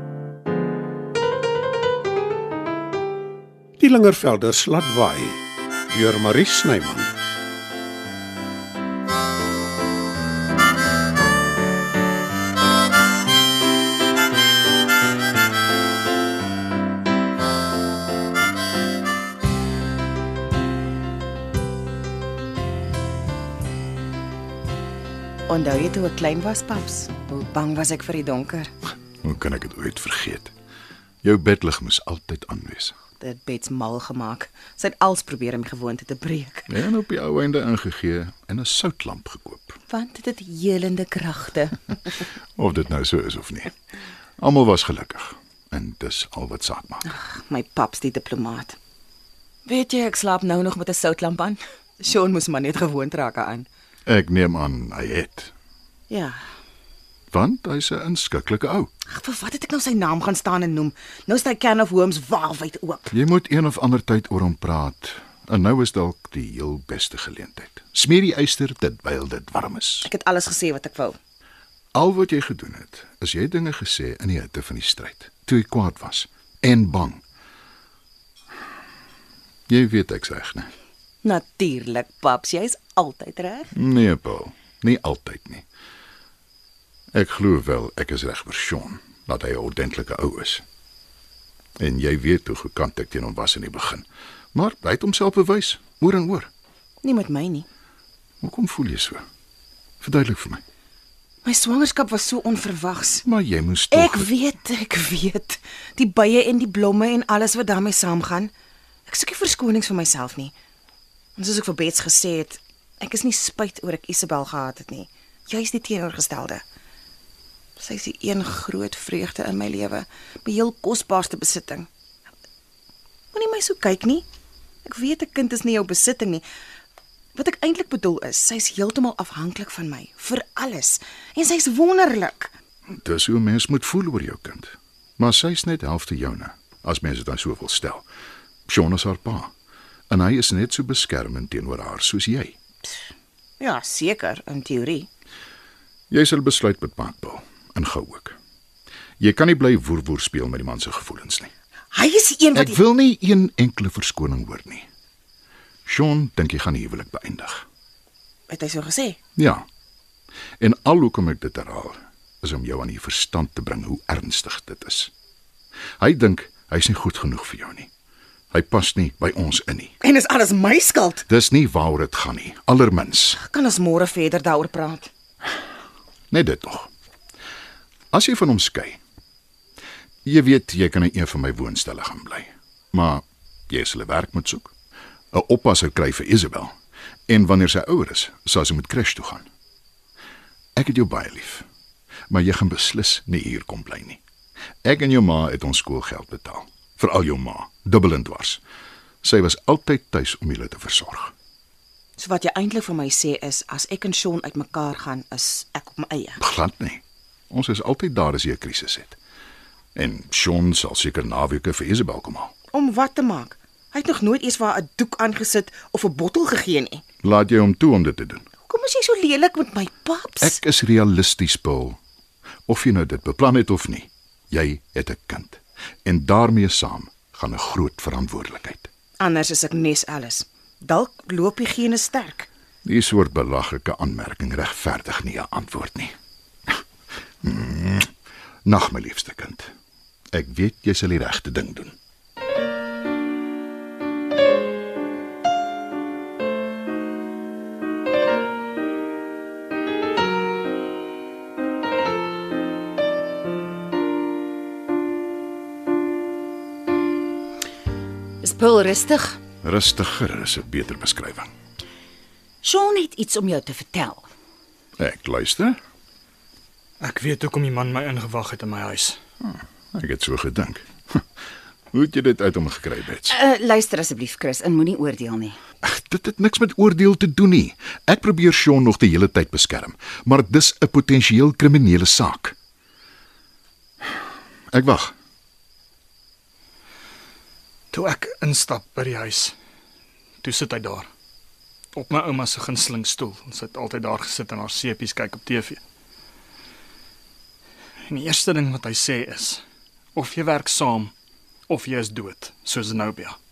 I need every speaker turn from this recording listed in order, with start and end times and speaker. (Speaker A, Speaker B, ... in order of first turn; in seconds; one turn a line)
Speaker A: 3.8-5.4
Speaker A: 5.9-7.1
Speaker B: 25.5-28.7
Speaker C: 29.2-30.5
Speaker C: 31.2-33.0
Speaker B: 33.2-36.7
Speaker C: 36.7-39.8
Speaker B: 39.9-42.2
Speaker C: 42.6-43.7
Speaker C: 44.4-47.0
Speaker B: 47.0-48.8
Speaker B: 49.7-53.7
Speaker C: 54.1-55.5
Speaker B: 56.1-56.4
Speaker C: 57.3-58.9
Speaker B: 59.1-63.1
Speaker C: 63.1-70.1
Speaker B: 70.0-71.2
Speaker C: 72.0-77.2
Speaker C: 79.7-80.7
Speaker B: 81.2-83.7
Speaker C: 83.7-85.7
Speaker C: 87.1-90.6
Speaker C: 91.8-96.5
Speaker B: 97.0-97.7
Speaker C: 98.4-99.2
Speaker C: 100.0-100.6
Speaker B: 101.4-103.2
Speaker C: 103.2-104.3
Speaker B: 103.9-108.5
Speaker B: 109.1-110.5
Speaker B: 111.4-116.6
Speaker B: 117.8-121.9
Speaker B: 123.3-124.2
Speaker B: 124.8-126.5
Speaker B: 127.3-132.5
Speaker C: 132.9-138.1
Speaker C: 138.7-139.5
Speaker C: 140.1-142.6
Speaker B: 143.6-145.1
Speaker C: 146.1-148.4
Speaker C: 149.2-151.5
Speaker B: 151.9-152.8
Speaker C: 152.5-154.9
Speaker C: 155.9-157.7
Speaker B: 158.5-159.2
Speaker C: 159.4-159.6
Speaker C: 160.6-165.1
Speaker C: 166.0-167.9
Speaker C: 168.5-170.0
Speaker B: 170.0-171.2
Speaker C: 171.3-173.4
Speaker B: 173.4-175.1
Speaker C: 176.3-176.9
Speaker C: 178.1-179.0
Speaker C: 180.2-184.7
Speaker C: 185.3-186.7
Speaker C: 187.3-189.5
Speaker C: 190.8-191.7
Speaker C: 192.3-194.2
Speaker C: 194.8-198.6
Speaker C: 199.2-201.3
Speaker B: 202.2-206.4
Speaker C: 206.4-209.2
Speaker C: 209.9-212.5
Speaker B: 212.7-217.0
Speaker C: 217.2-218.4
Speaker B: 218.7-220.6
Speaker C: 220.4-222.0
Speaker C: 222.7-228.9
Speaker B: 229.2-232.5
Speaker C: 232.8-236.1
Speaker C: 237.4-238.1
Speaker C: 238.7-239.7
Speaker C: 240.3-241.9
Speaker D: 258.4-259.4
Speaker C: 259.6-261.5
Speaker D: 262.6-264.2
Speaker C: 265.0-265.8
Speaker E: 267.0-269.2
Speaker C: 269.4-271.2
Speaker C: 271.9-273.4
Speaker D: 273.3-275.6
Speaker C: 275.8-282.6
Speaker C: 284.7-285.1
Speaker E: 287.9-289.5
Speaker E: 290.4-291.1
Speaker E: 291.9-295.8
Speaker E: 298.1-299.6
Speaker E: 300.1-301.1
Speaker E: 301.7-303.4